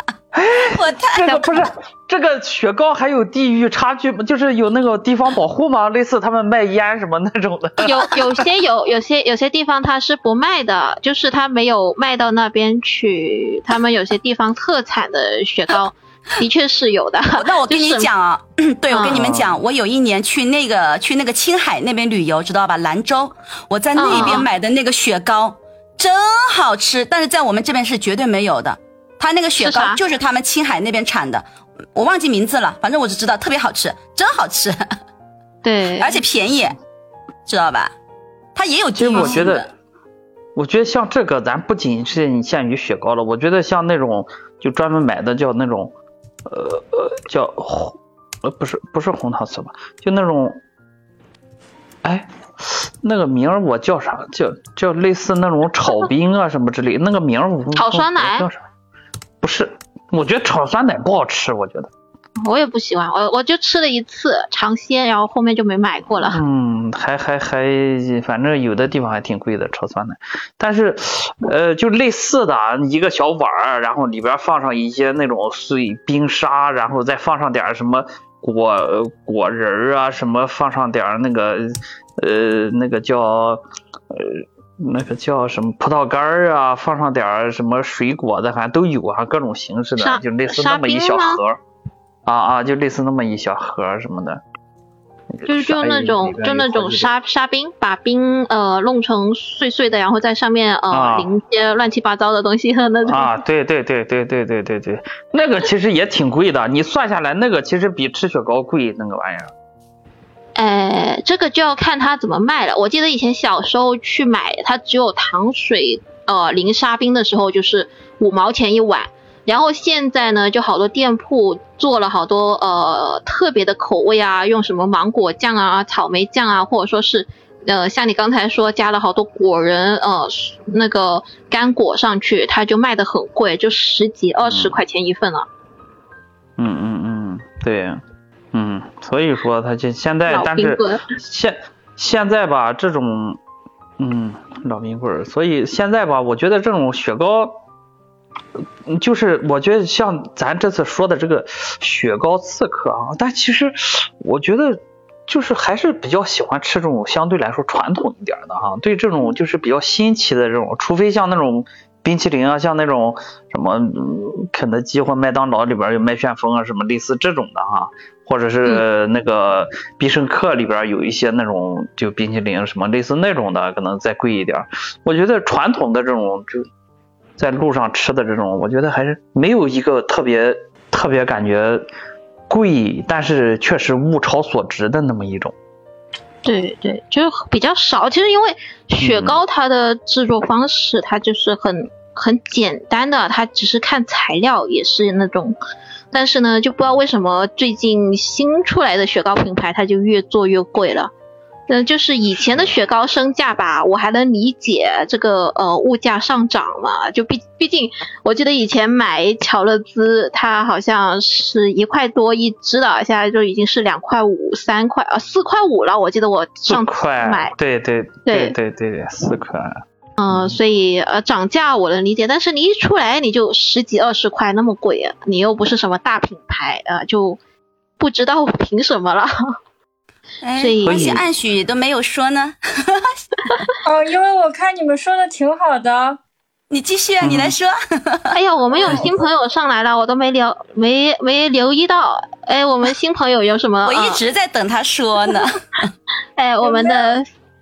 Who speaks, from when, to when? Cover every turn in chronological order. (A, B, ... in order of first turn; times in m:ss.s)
0:00.3-0:08.4 A
0:00.7-0:01.5 B
0:07.8-0:18.1 C
0:17.3-0:34.8 B
0:18.9-0:19.2 C
0:19.1-0:19.6 A
0:24.0-0:24.5 C
0:29.6-0:30.0 C
0:35.6-0:36.2 C
0:36.0-0:36.8 B
0:37.4-0:37.9 B
0:38.5-0:39.7 B
0:39.0-0:39.7 A
0:39.1-0:39.5 C
0:40.6-0:45.9 A
0:46.5-0:50.6 A
0:52.0-0:58.6 A
0:57.8-0:58.5 C
0:59.4-1:01.9 A
1:02.4-1:06.4 C
1:06.2-1:31.6 A
1:30.0-1:31.4 C
1:32.2-1:34.4 A
1:35.3-1:37.1 A
1:35.5-1:43.3 C
1:40.9-1:41.3 A
1:43.1-1:49.5 A
1:50.5-2:15.5 C
2:14.4-2:14.8 A
2:16.6-2:18.0 A
2:18.5-2:23.4 A
2:20.3-2:21.1 C
2:24.0-2:27.6 A
2:28.9-2:56.6 A
2:57.4-3:01.9 A
3:02.5-3:05.5 A
3:06.4-3:15.6 C
3:09.0-3:09.4 A
3:16.1-3:21.1 C
3:21.7-3:37.5 C
3:36.6-3:39.7 A
3:38.3-3:38.5 C
3:40.2-3:47.4 C
3:40.3-3:40.6 A
3:48.0-3:49.3 C
3:50.4-3:53.1 B
3:50.6-3:51.2 C
3:50.8-3:51.2 A
3:53.8-3:56.2 D
3:56.7-3:58.2 B
3:57.2-3:57.6 A
3:58.3-4:04.2 C
3:58.8-3:59.2 A
4:03.8-4:05.8 B
4:06.4-4:07.2 C
4:06.6-4:07.1 D